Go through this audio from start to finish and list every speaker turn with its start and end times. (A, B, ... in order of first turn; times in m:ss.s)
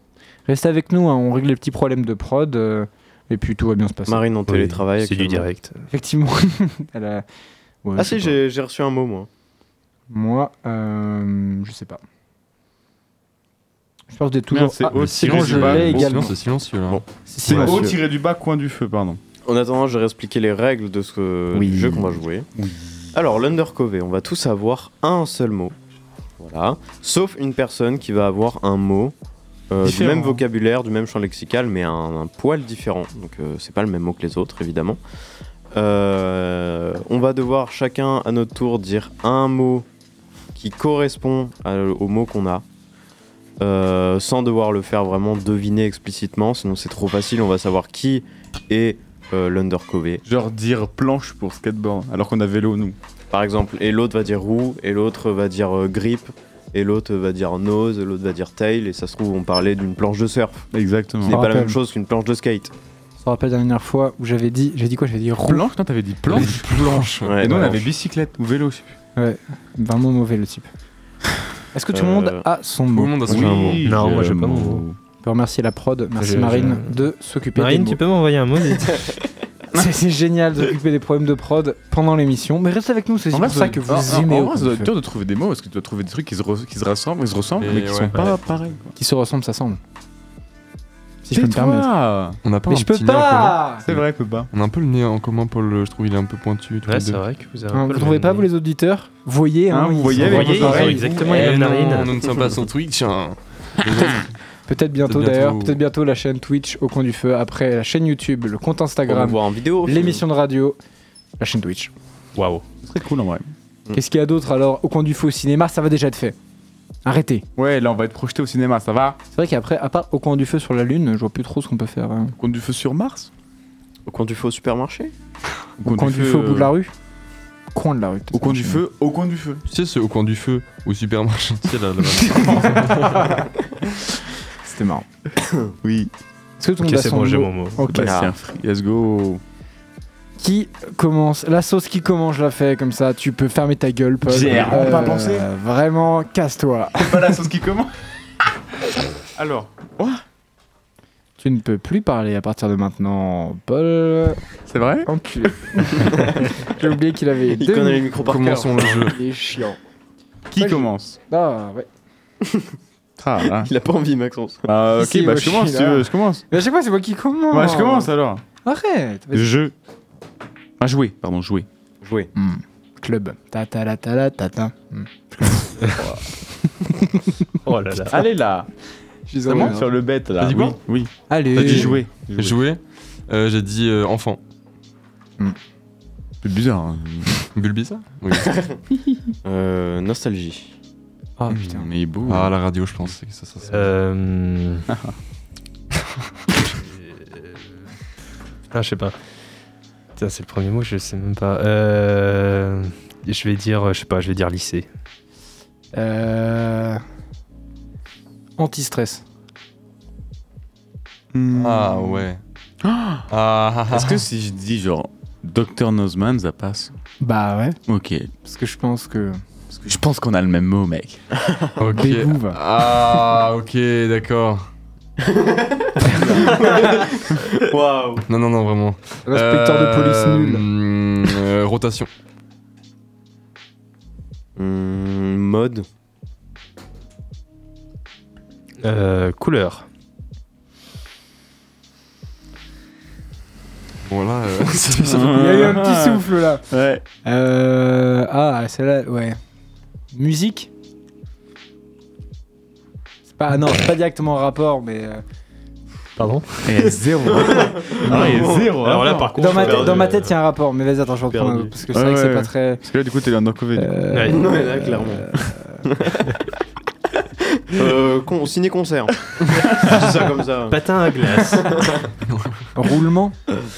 0:00.4-0:04.2 A
0:04.1-0:05.5 B
0:04.5-0:05.8 C
0:05.9-0:07.2 A
0:07.8-0:08.4 A
0:08.0-0:09.3 B
0:10.1-0:12.0 A
0:14.1-0:16.3 A
0:14.5-0:16.3 D
0:14.9-0:17.0 E
0:16.9-0:17.8 B
0:17.3-0:18.0 A
0:17.4-0:19.2 D
0:19.4-0:22.5 B
0:21.6-0:22.0 A
0:22.5-0:23.1 D
0:23.1-0:25.8 B
0:26.4-0:29.1 B
0:29.7-0:35.0 B
0:29.8-0:30.4 D
0:35.7-0:39.9 B
0:40.5-0:42.6 B
0:43.6-0:50.2 B
0:50.2-0:53.0 D
0:53.3-1:00.7 B
1:00.7-1:01.4 D
1:01.2-1:02.7 B
1:01.3-1:01.8 A
1:03.2-1:05.6 A
1:05.4-1:08.9 D
1:06.3-1:07.8 E
1:07.2-1:07.9 B
1:09.2-1:10.7 A
1:11.7-1:13.4 A
1:11.9-1:12.5 B
1:12.9-1:13.8 E
1:13.3-1:13.8 B
1:13.3-1:15.0 D
1:13.8-1:14.8 C
1:15.2-1:18.0 A
1:16.2-1:19.2 C
1:19.7-1:24.9 A
1:23.3-1:28.9 D
1:27.6-1:28.4 E
1:29.0-1:29.8 A
1:31.2-1:31.9 A
1:31.3-1:32.4 D
1:32.4-1:37.2 E
1:32.7-1:33.8 A
1:33.8-1:34.5 D
1:36.8-1:38.5 C
1:37.7-1:41.0 A
1:39.7-1:41.6 D
1:40.1-1:42.2 C
1:41.1-1:44.4 E
1:44.7-1:50.8 A
1:45.0-1:45.8 E
1:49.1-1:50.2 B
1:51.4-1:51.9 A
1:52.4-1:52.6 C
1:52.8-1:53.5 D
1:53.9-1:56.4 A
1:57.0-1:57.4 A
1:57.6-1:59.2 D
1:59.3-2:02.4 A
2:02.4-2:03.3 D
2:04.0-2:05.1 B
2:05.8-2:06.7 D
2:05.9-2:06.9 A
2:07.7-2:08.8 A
2:08.3-2:09.6 D
2:09.7-2:13.3 E
2:12.4-2:13.2 A
2:14.6-2:15.0 A
2:15.4-2:15.7 B
2:15.8-2:16.1 D
2:16.6-2:18.2 A
2:16.8-2:17.8 C
2:17.8-2:19.4 D
2:18.0-2:18.3 B
2:20.4-2:27.4 A
2:24.2-2:25.5 D
2:27.0-2:27.9 D
2:29.3-2:30.2 D
2:31.4-2:34.4 A
2:34.7-2:35.1 D
2:35.0-2:39.8 A
2:36.1-2:36.6 B
2:37.4-2:39.1 B
2:38.2-2:39.2 E
2:40.5-2:41.2 D
2:40.6-2:41.9 A
2:42.4-2:42.7 B
2:43.2-2:43.7 D
2:43.4-2:44.7 B
2:44.6-2:46.4 D
2:45.0-2:48.1 A
2:47.5-2:48.4 D
2:48.6-2:49.5 A
2:49.3-2:49.7 D
2:50.8-2:51.6 D
2:52.0-2:52.3 B
2:52.3-2:56.0 A
2:56.9-2:57.4 A
2:57.6-2:58.2 C
2:58.0-2:58.7 D
2:59.3-2:59.9 A
2:59.5-3:02.6 D
3:00.4-3:00.8 E
3:01.3-3:02.0 A
3:01.5-3:04.4 E
3:06.4-3:07.4 D
3:07.5-3:08.6 E
3:09.4-3:10.7 B
3:11.4-3:11.9 A
3:11.5-3:12.5 D
3:12.2-3:13.9 E
3:13.7-3:14.9 C
3:14.9-3:15.2 D
3:16.8-3:17.8 C
3:18.7-3:19.1 C
3:20.2-3:24.8 C
3:25.9-3:27.0 A
3:28.6-3:29.2 A
3:31.3-3:32.2 D
3:31.5-3:32.4 E
3:32.8-3:33.2 D
3:33.3-3:34.2 E
3:33.9-3:36.9 D
3:37.2-3:37.8 A
3:37.9-3:38.3 D
3:38.4-3:39.4 A
3:39.8-3:41.2 D
3:41.8-3:44.6 E
3:41.9-3:42.6 A
3:45.2-3:48.2 B
3:46.0-3:46.6 A
3:48.3-3:52.1 E
3:49.3-3:50.6 A
3:54.6-3:55.8 B
3:58.8-3:59.8 C
4:04.0-4:05.7 E
4:04.9-4:07.0 D
4:05.2-4:06.7 A
4:07.2-4:09.4 A
4:10.1-4:10.7 A
4:13.4-4:15.2 A
4:16.2-4:17.1 C
4:16.6-4:19.4 D
4:17.3-4:18.9 B
4:18.0-4:20.3 C
4:19.3-4:22.8 A
4:19.6-4:20.1 B
4:21.3-4:21.7 B
4:21.9-4:24.0 D
4:23.8-4:25.8 A
4:24.1-4:24.4 C
4:24.2-4:26.3 B
4:27.6-4:30.8 B
4:29.5-4:30.0 D
4:30.7-4:31.8 C
4:31.4-4:31.9 B
4:32.3-4:32.6 E
4:32.7-4:33.4 A